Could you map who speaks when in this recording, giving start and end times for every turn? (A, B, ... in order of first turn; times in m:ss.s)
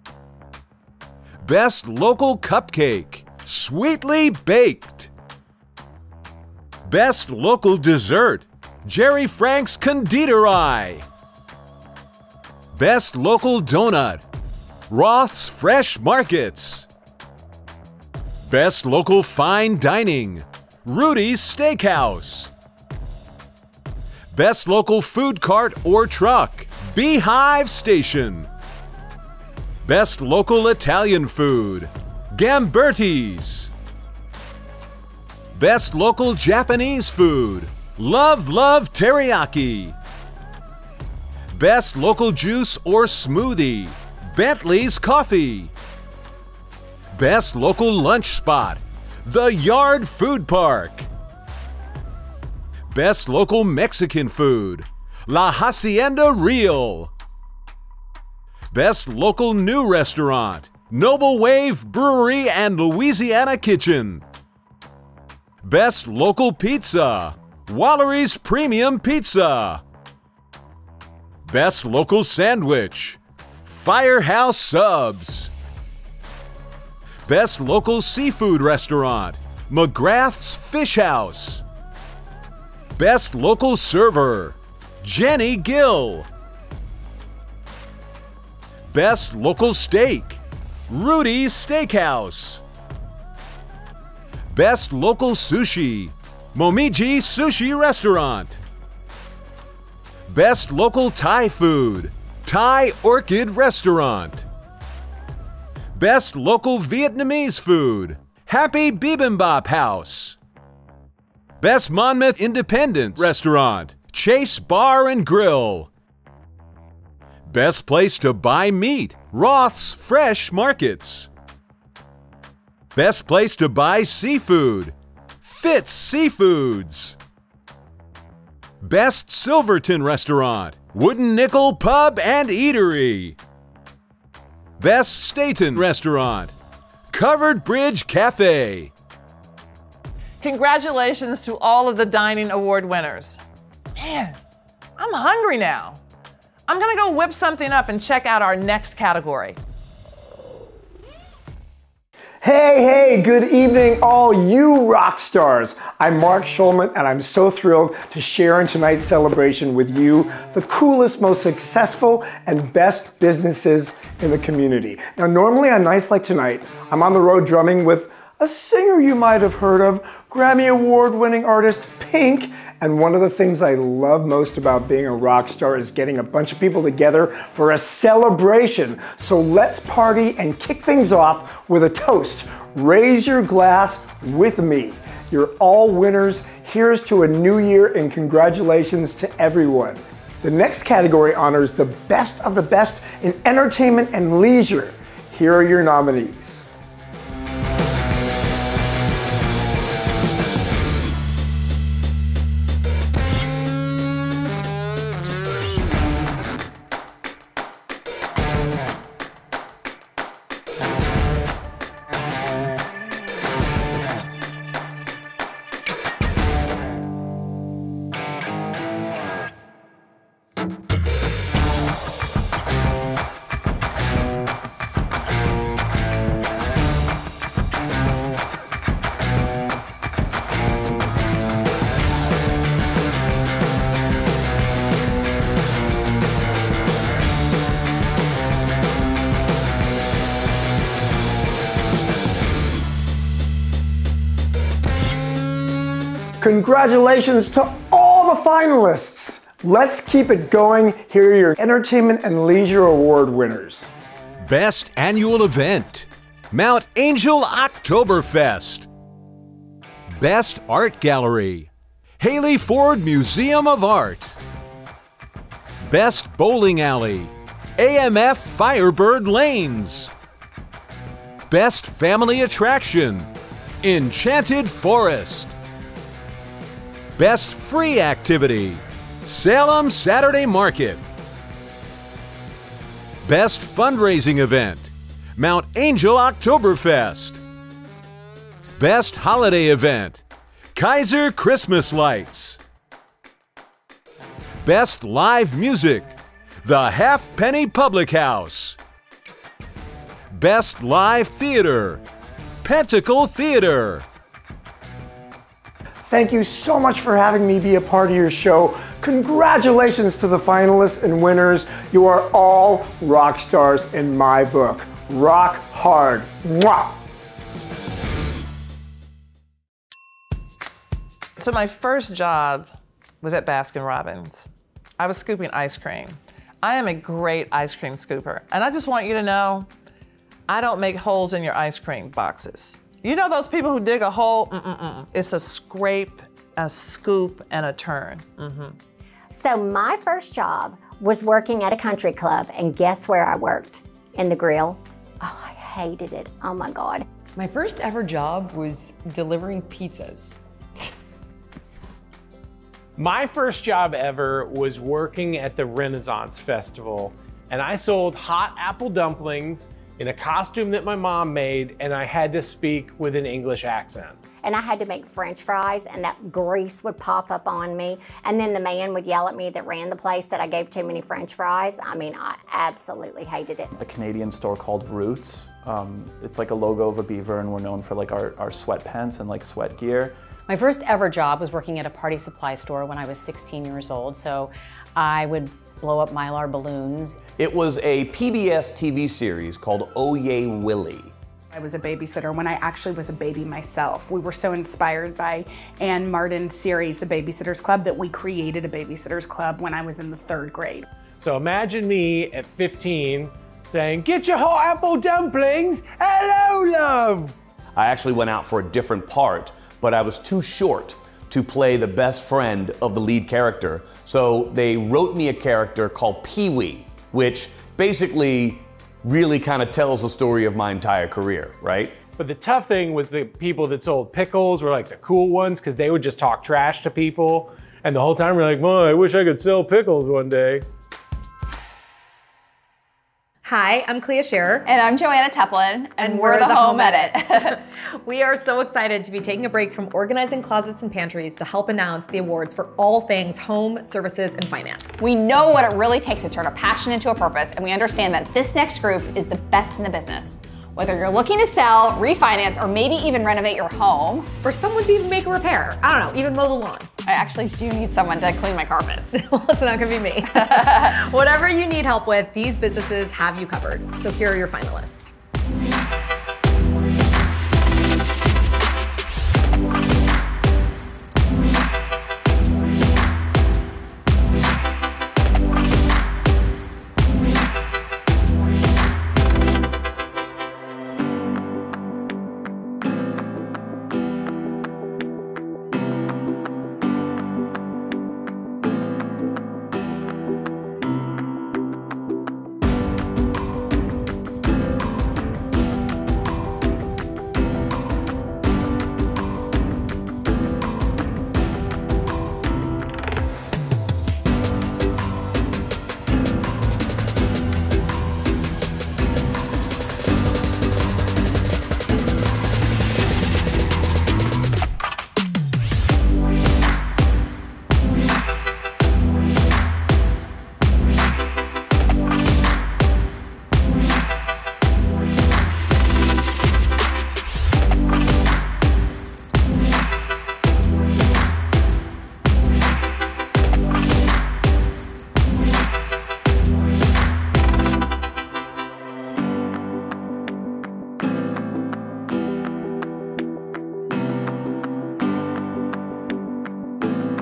0:01.4-0:05.1 A
0:06.9-0:11.1 A
0:12.7-0:14.2 A
0:14.9-0:16.9 A
0:18.4-0:22.5 A
0:24.3-0:28.5 A
0:29.8-0:33.7 A
0:35.5-0:40.0 A
0:41.5-0:45.7 A
0:47.1-0:51.1 A
0:52.9-0:57.1 A
0:58.7-1:04.2 A
1:05.6-1:09.8 A
1:11.5-1:15.5 A
1:17.3-1:21.6 A
1:23.0-1:26.3 A
1:28.9-1:32.6 A
1:34.5-1:38.6 A
1:40.3-1:44.5 A
1:45.9-1:50.4 A
1:51.6-1:55.9 A
1:57.5-2:01.3 A
2:02.9-2:07.2 A
2:08.8-2:13.4 A
2:14.8-2:16.5 A
2:17.1-2:18.9 A
2:20.4-2:23.4 B
2:24.0-2:24.4 B
2:25.0-2:26.0 B
2:26.7-2:29.6 B
2:32.4-3:16.6 C
4:06.4-4:13.9 C
4:14.4-4:18.9 A
4:20.1-4:24.4 A
4:25.8-4:30.1 A
4:31.5-4:33.3 A
4:33.8-4:35.6 A
4:37.2-4:41.0 A
4:43.2-4:47.4 A
4:48.8-4:50.2 A
4:50.8-4:52.6 A
4:54.6-4:58.8 A
5:00.3-5:02.0 A
5:02.6-5:04.1 A
5:06.0-5:17.0 C
5:21.4-5:22.7 B
5:23.2-5:24.5 B
5:25.0-5:29.7 B
5:30.5-5:38.8 B
5:39.3-5:47.1 D
5:47.4-5:50.4 E
5:53.0-6:04.2 F
6:04.4-6:13.7 D
6:13.7-6:20.2 G
6:20.5-6:27.2 H
6:27.4-6:31.1 I
6:31.5-6:40.9 J
6:41.2-6:47.4 F
6:47.8-7:02.0 I
7:02.2-7:10.7 F
7:13.4-7:14.7 K
7:14.7-7:17.6 L
7:16.0-7:25.0 K
7:25.0-7:34.3 L
7:34.4-7:36.9 K
7:37.0-7:39.2 L
7:39.2-7:45.1 K
7:40.3-7:41.0 L